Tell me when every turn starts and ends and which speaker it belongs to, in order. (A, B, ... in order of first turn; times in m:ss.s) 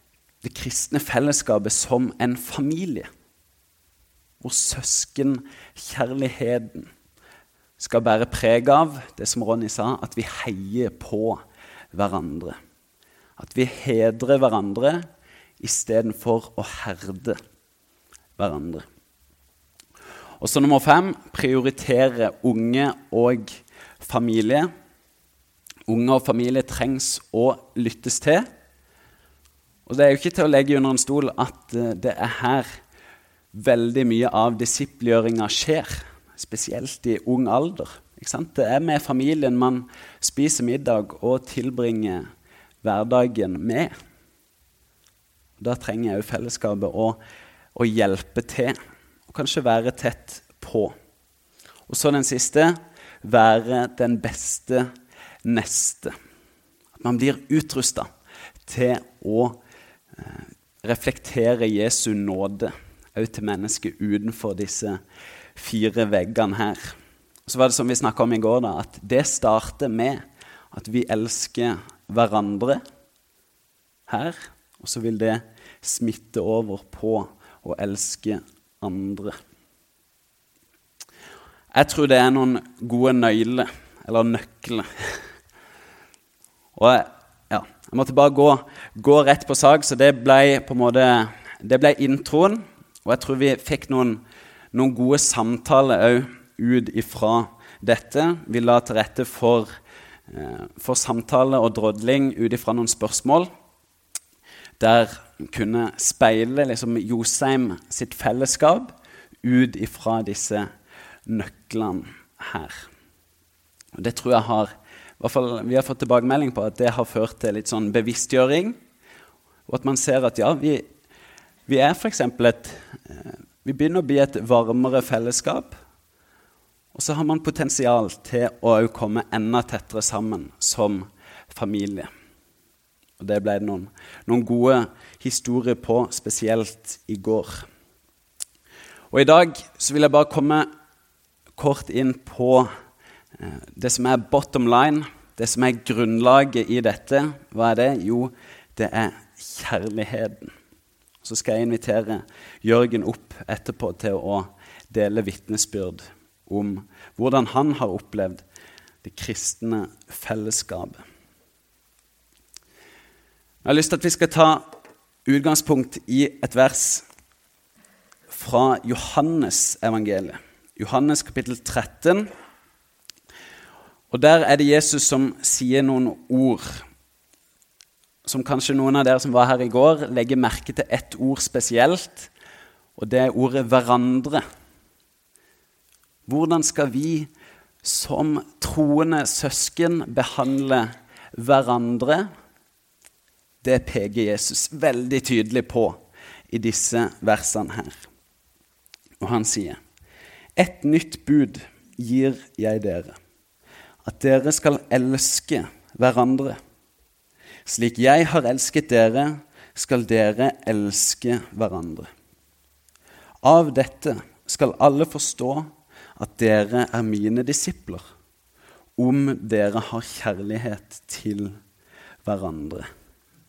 0:00.4-0:03.1 A
0:04.4-0:06.9 A
0:07.8-0:11.4 A
0:11.9-0:12.5 A
0:13.4-0:15.0 A
0:15.6-0:17.4 A
0:18.4-0:18.8 A
0:20.4-0:24.7 A
0:25.9-0:28.5 A
0:29.9-0:32.7 A
0:33.5-0:42.2 A
0:42.8-0:43.9 A
0:45.6-0:47.2 A
0:47.7-0:48.8 A
0:49.3-0:50.9 A
0:51.9-0:54.9 A
0:55.4-0:56.1 A
0:57.0-0:58.1 A
0:58.6-0:59.6 A
1:00.2-1:05.0 A
1:05.6-1:06.9 A
1:07.5-1:10.2 A
1:10.7-1:12.8 A
1:14.1-1:19.3 A
1:21.7-1:25.2 A
1:26.8-1:34.2 A
1:34.7-1:39.7 A
1:40.3-1:43.5 A
1:44.8-1:48.9 A
1:49.4-1:50.7 A
1:51.2-1:52.8 A
1:53.9-1:58.8 A
1:59.7-2:00.8 A
2:01.7-2:05.8 A
2:06.9-2:12.1 A
2:13.2-2:17.7 A
2:19.1-2:20.7 A
2:21.6-2:22.7 A
2:23.4-2:30.5 A
2:31.2-2:38.4 A
2:39.0-2:41.0 A
2:43.6-2:44.7 A
2:45.2-2:47.0 A
2:48.3-2:52.3 A
2:54.1-2:56.8 A
2:58.2-3:02.3 A
3:03.0-3:04.4 A
3:06.3-3:07.3 A
3:07.8-3:12.3 A
3:13.6-3:18.0 A
3:19.2-3:19.8 A
3:20.6-3:23.2 A
3:24.0-3:26.6 A
3:27.7-3:32.1 A
3:33.4-3:38.0 A
3:39.0-3:41.6 A
3:42.2-3:42.9 A